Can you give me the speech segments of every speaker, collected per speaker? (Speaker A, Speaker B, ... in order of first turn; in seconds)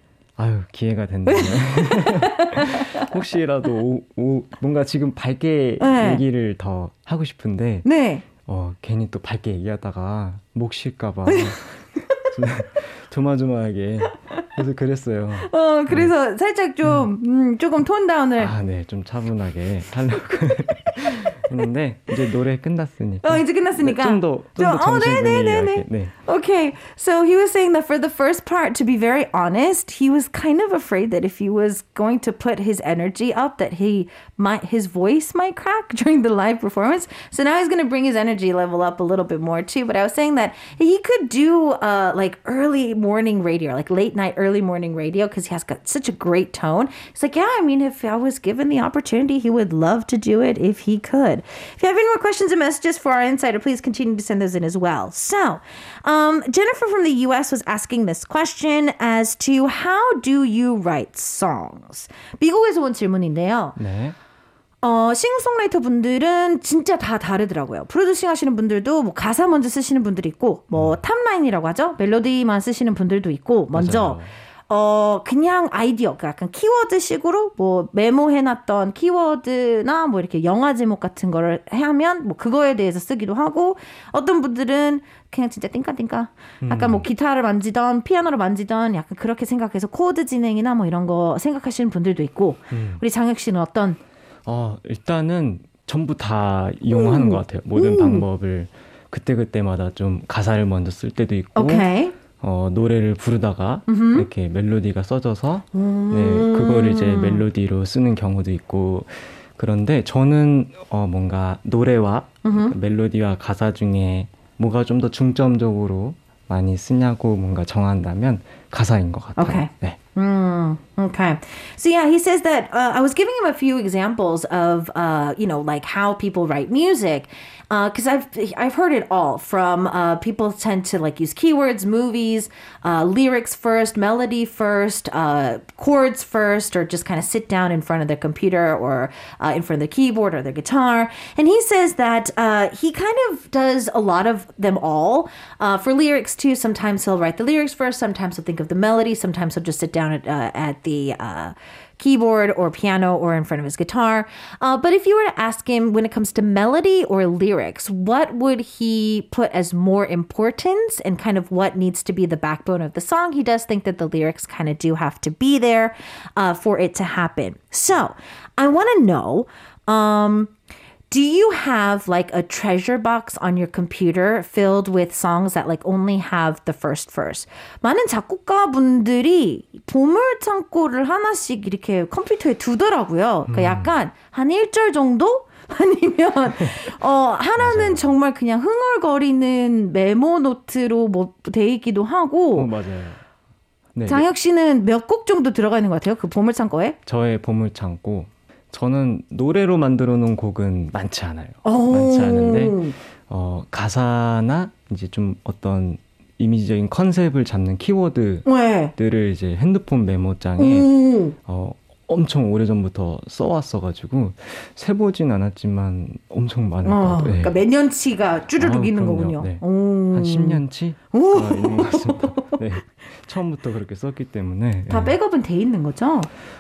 Speaker A: 0.4-7.8, 8.4-16.1, 18.4-26.1, 63.8-64.2, 73.7-74.3, 86.6-87.1, 92.7-93.0, 94.5-120.0, 183.5-183.9, 186.6-186.9, 187.6-188.1, 192.6-193.2, 193.9-194.3, 197.1-217.6, 218.6-225.2
Speaker B: 1.3-3.1, 5.8-6.2, 7.8-8.2, 11.3-11.5, 15.4-18.5, 23.2-63.8, 64.8-94.0, 96.9-98.2, 101.5-102.2, 103.9-104.3, 105.7-107.5, 112.4-112.8, 119.4-170.5, 171.1-192.7, 194.1-197.0, 201.7-202.9, 208.5-208.9, 210.6-211.3, 216.8-222.6, 224.9-226.3